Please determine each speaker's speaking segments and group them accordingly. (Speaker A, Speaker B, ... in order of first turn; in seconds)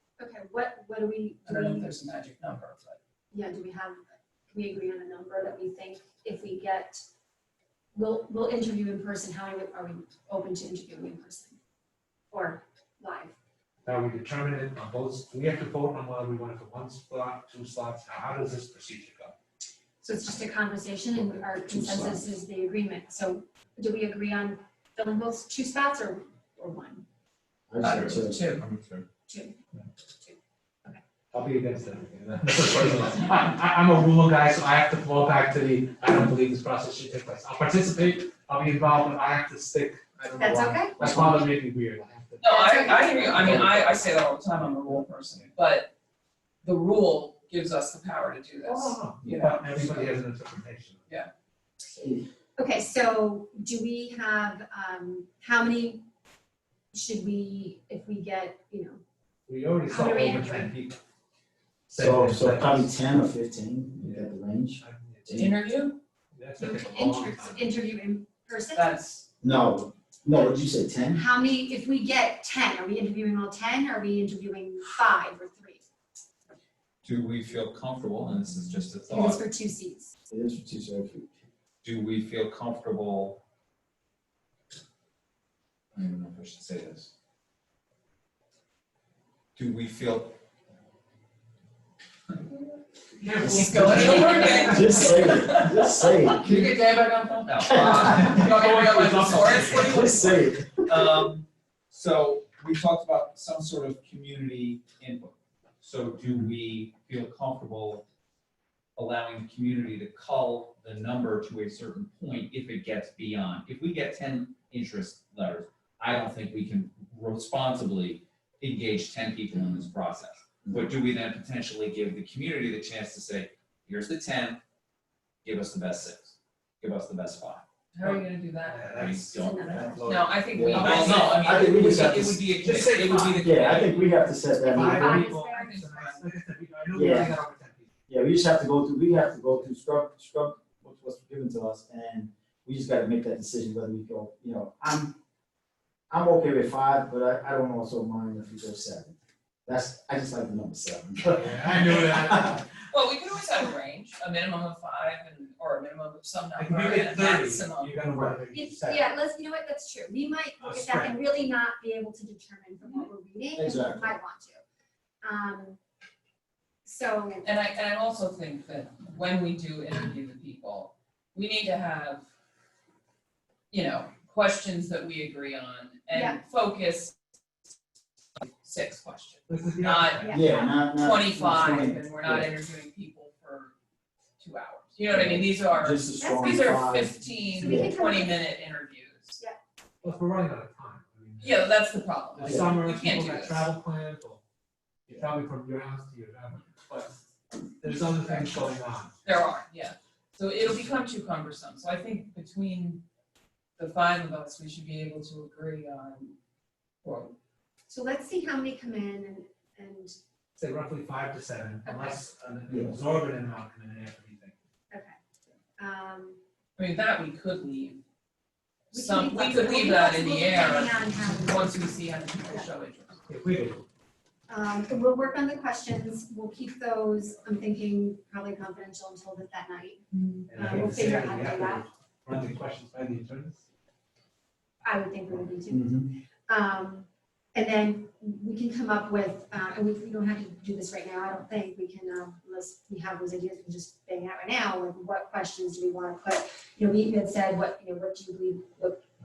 Speaker A: 0.2-1.9, 3.3-7.0, 8.0-11.6, 12.3-13.3, 20.0-27.1, 29.3-29.6, 30.2-31.0, 40.4-41.2, 42.4-43.7, 52.6-56.0, 56.9-59.0, 59.9-60.8, 66.6-68.9, 71.1-75.8, 79.1-80.1, 129.3-130.2, 134.8-136.2, 158.5-164.6, 165.2-165.8, 166.8-167.5, 176.1-176.4, 180.2-180.7, 186.2-186.7, 187.6-188.4, 207.9-210.2, 211.8-212.2, 215.8-216.4, 218.9-222.0, 224.5-231.8, 234.8-249.0
Speaker B: 1.5-3.0, 27.8-28.6, 42.4-45.9, 46.6-50.1, 65.3-66.0, 68.7-69.2, 93.4-100.5, 127.9-129.1, 130.1-132.0, 135.4-136.2, 152.9-157.9, 162.8-163.1, 167.4-172.2, 173.7-177.2, 178.6-183.7, 184.4-189.4, 191.4-193.7, 197.8-198.6, 199.2-203.0, 203.8-206.4, 207.0-207.3, 216.8-218.0, 218.9-223.2, 230.1-230.4
Speaker C: 13.8-19.3, 31.3-44.0, 48.6-51.0, 59.5-61.0, 61.9-62.9, 64.0-65.6, 66.3-67.7, 93.2-95.2, 98.0-100.0, 128.0-130.3, 132.1-133.5, 134.7-137.9, 151.2-152.6, 156.6-159.2, 160.6-161.2, 179.5-180.4, 190.0-191.7, 192.3-194.4, 195.1-197.2, 197.8-199.2, 210.6-214.6, 223.3-223.8, 230.5-233.6
Speaker D: 21.2-22.2, 27.7-28.4, 41.0-41.3, 52.0-52.2, 62.0-65.5, 69.4-71.2, 80.3-81.3, 93.4-96.7, 97.7-98.4, 99.8-101.2, 130.5-132.4, 133.4-135.3, 136.9-137.3, 138.1-145.2, 146.1-149.2, 149.7-152.6, 163.6-164.2, 180.3-182.5, 185.1-187.9, 192.5-192.7, 212.7-213.0, 235.7-236.1
Speaker E: 27.8-29.1, 77.0-79.4, 81.8-83.4, 85.9-87.1, 89.5-90.4, 93.9-94.7, 97.5-98.3, 99.3-108.0, 109.0-124.6, 125.4-127.6, 128.9-130.1, 130.7-134.0